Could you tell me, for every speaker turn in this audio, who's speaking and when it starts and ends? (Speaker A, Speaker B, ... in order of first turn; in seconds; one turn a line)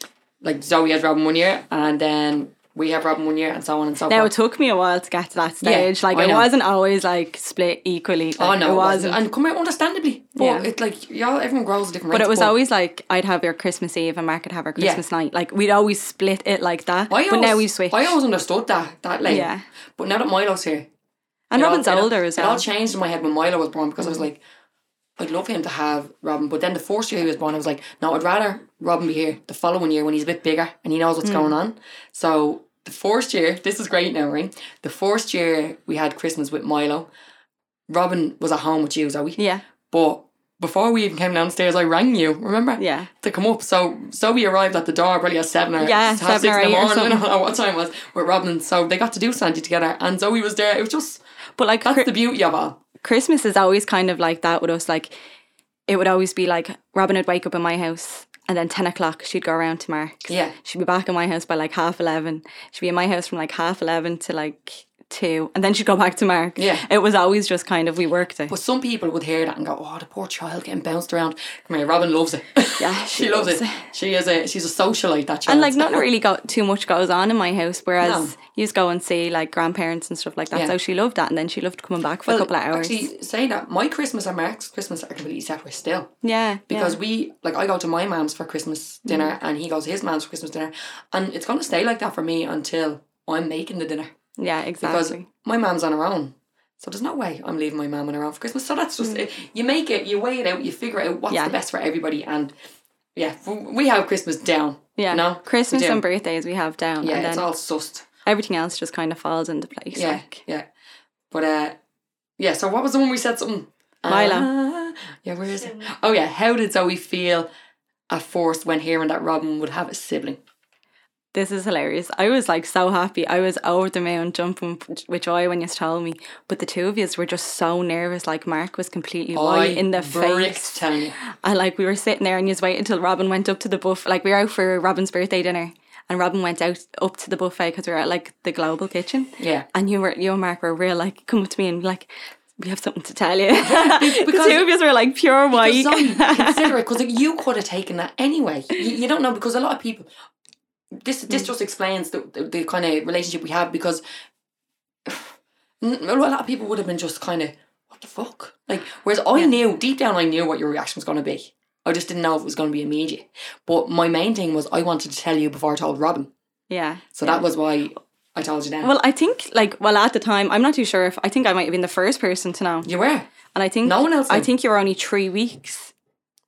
Speaker A: 0.4-4.3
Speaker B: 4.1-9.2
Speaker A: 5.6-6.5
Speaker A: 8.4-12.6
Speaker B: 10.4-10.7
Speaker B: 12.1-18.2
Speaker A: 14.8-15.0
Speaker A: 17.1-20.9
Speaker B: 19.3-19.6
Speaker B: 21.5-22.6
Speaker A: 21.6-24.4
Speaker A: 25.2-37.1
Speaker B: 31.2-31.6
Speaker A: 37.9-51.2
Speaker B: 39.4-39.6
Speaker B: 42.8-43.1
Speaker B: 45.8-47.2
Speaker B: 51.6-52.1
Speaker A: 51.8-52.8
Speaker B: 53.0-55.1
Speaker B: 55.9-68.5
Speaker A: 60.3-60.5
Speaker A: 66.6-66.8
Speaker A: 68.5-76.1
Speaker B: 72.8-73.9
Speaker B: 75.5-83.1
Speaker A: 78.0-78.4
Speaker A: 82.3-86.1
Speaker B: 86.2-87.0
Speaker A: 86.7-94.1
Speaker B: 89.1-89.3
Speaker B: 94.4-95.3
Speaker A: 94.8-102.5
Speaker B: 101.3-101.6
Speaker A: 103.2-106.0
Speaker B: 105.0-107.5
Speaker A: 107.0-108.1
Speaker B: 108.3-110.4
Speaker A: 110.0-110.7
Speaker A: 111.3-111.8
Speaker A: 112.4-117.5
Speaker B: 114.1-114.5
Speaker A: 118.1-120.4
Speaker B: 121.3-146.7
Speaker A: 129.3-131.2
Speaker A: 139.4-139.7
Speaker A: 143.6-144.7
Speaker A: 145.5-150.1
Speaker A: 150.9-154.0
Speaker A: 155.1-166.3
Speaker B: 166.7-167.4
Speaker A: 167.2-168.9
Speaker B: 168.8-172.9
Speaker A: 172.8-173.3
Speaker B: 173.5-175.9
Speaker A: 173.8-174.5